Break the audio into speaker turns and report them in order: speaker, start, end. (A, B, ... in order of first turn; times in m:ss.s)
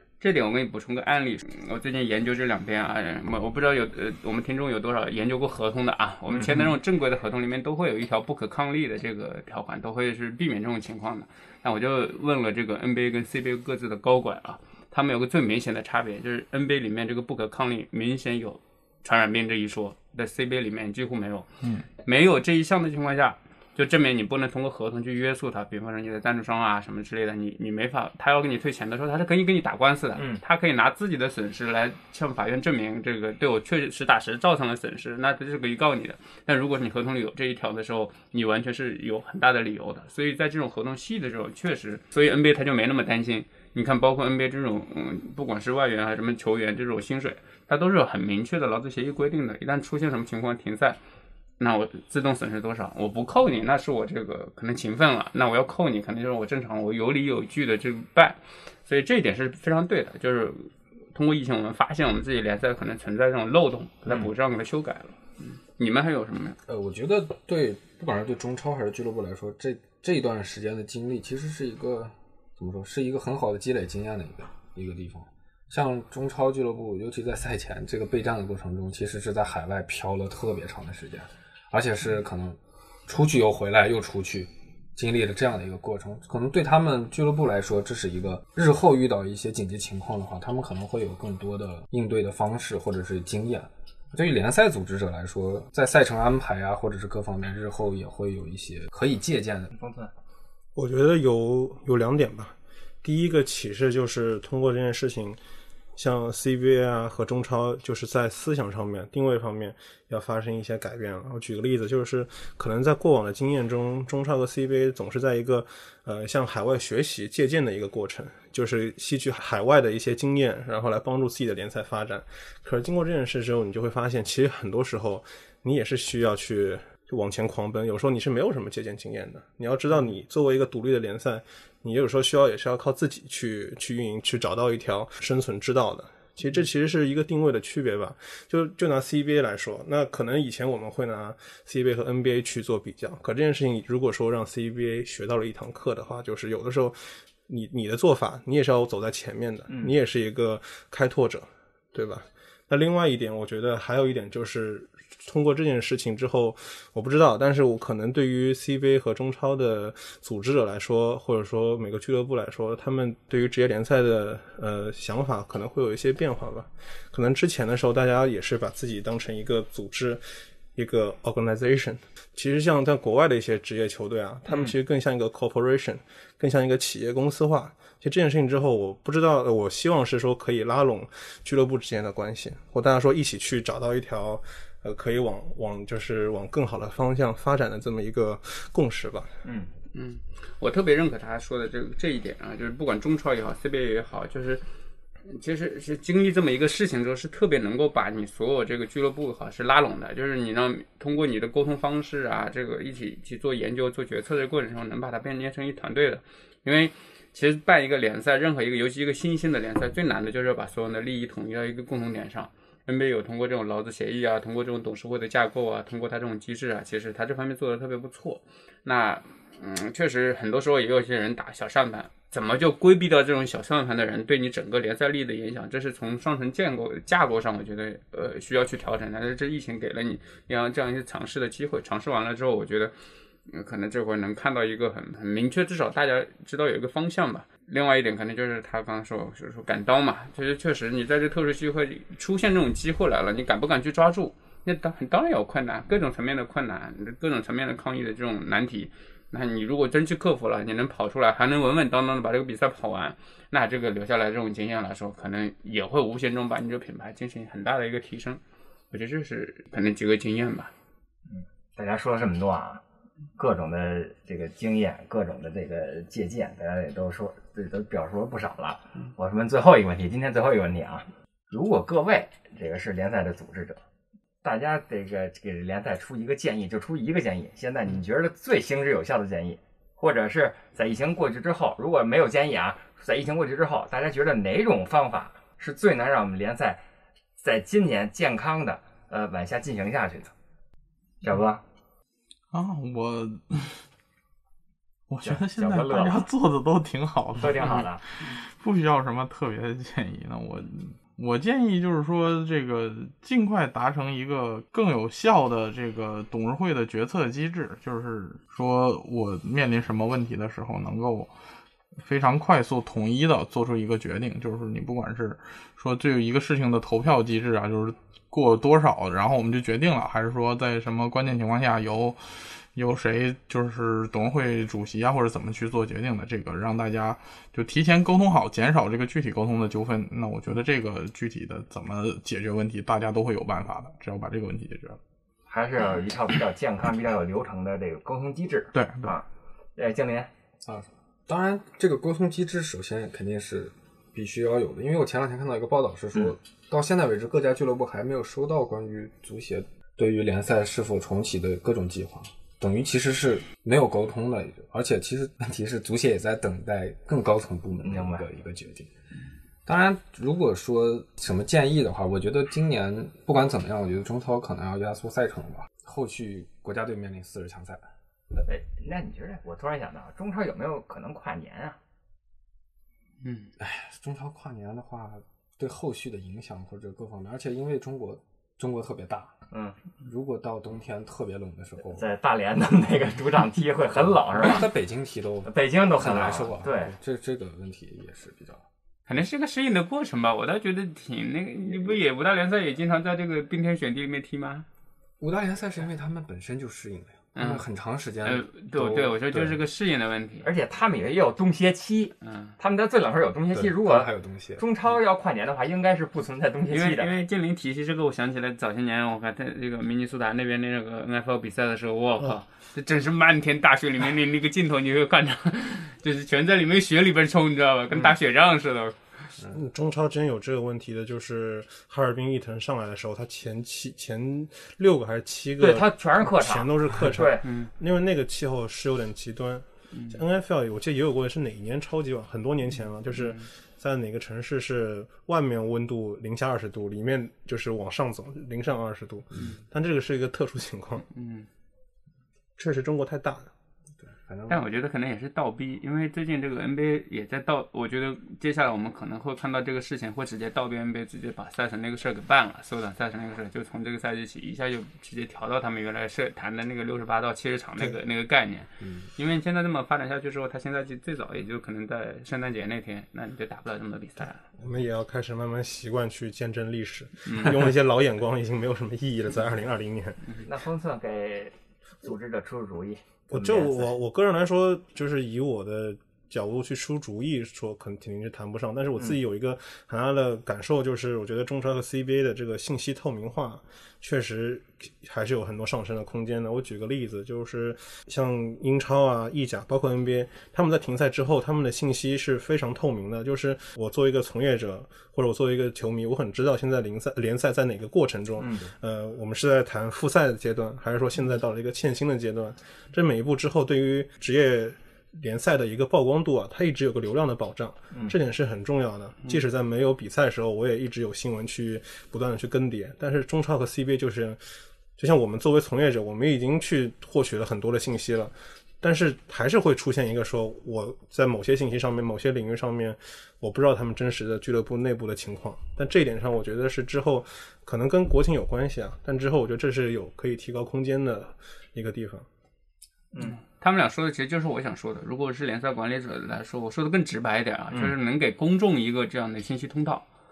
0:00.2-0:21.5 A
0:06.3-0:06.7 B
0:22.0-0:51.0 A
0:30.2-0:30.4 B
0:51.6-1:06.6 A
1:04.1-1:04.3 B
1:06.7-1:39.7 C
1:39.7-1:40.1 B
1:40.8-1:45.4 D
1:46.0-2:50.2 D
2:50.8-3:09.4 D
2:54.5-2:54.7 B
3:09.4-3:09.7 B
3:09.9-3:14.6 A
3:15.3-3:52.9 A
3:53.5-4:20.7 A
4:21.3-4:22.8 B
4:23.4-4:33.8 B
4:34.4-4:46.8 B
4:47.4-4:50.3 B
4:51.2-4:51.6 B
4:52.5-4:53.8 E
4:55.1-5:11.3 E
4:55.2-4:56.3 B
4:57.4-4:58.0 B
5:12.0-5:35.0 E
5:35.5-5:40.3 B
5:38.7-5:39.2 E
5:40.6-5:58.9 C
5:57.8-5:58.2 B
5:59.7-6:07.8 C
6:08.4-6:11.8 B
6:13.2-6:13.5 A
6:13.6-6:19.3 C
6:19.5-6:19.8 B
6:20.0-6:22.1 C
6:22.0-6:24.7 B
6:24.0-6:28.6 C
6:25.5-6:26.9 B
6:29.1-6:34.7 A
6:35.2-6:39.6 C
6:37.4-6:37.7 A
6:38.2-6:40.5 A
6:40.4-6:47.2 B
6:42.2-6:42.6 A
6:43.5-6:44.6 C
6:46.7-6:59.3 A
6:59.5-7:21.1 D
7:05.6-7:07.4 B
7:07.4-7:07.7 A
7:13.1-7:13.5 A
7:21.2-7:21.5 A
7:22.6-7:23.5 D
7:24.0-7:24.6 C
7:24.5-7:44.4 A
7:38.8-7:39.1 C
7:44.6-7:50.2 D
7:47.3-7:47.7 A
7:50.4-7:53.9 B
7:53.3-8:34.4 D
8:18.4-8:18.7 B
8:35.0-8:52.3 D
8:53.2-9:00.1 A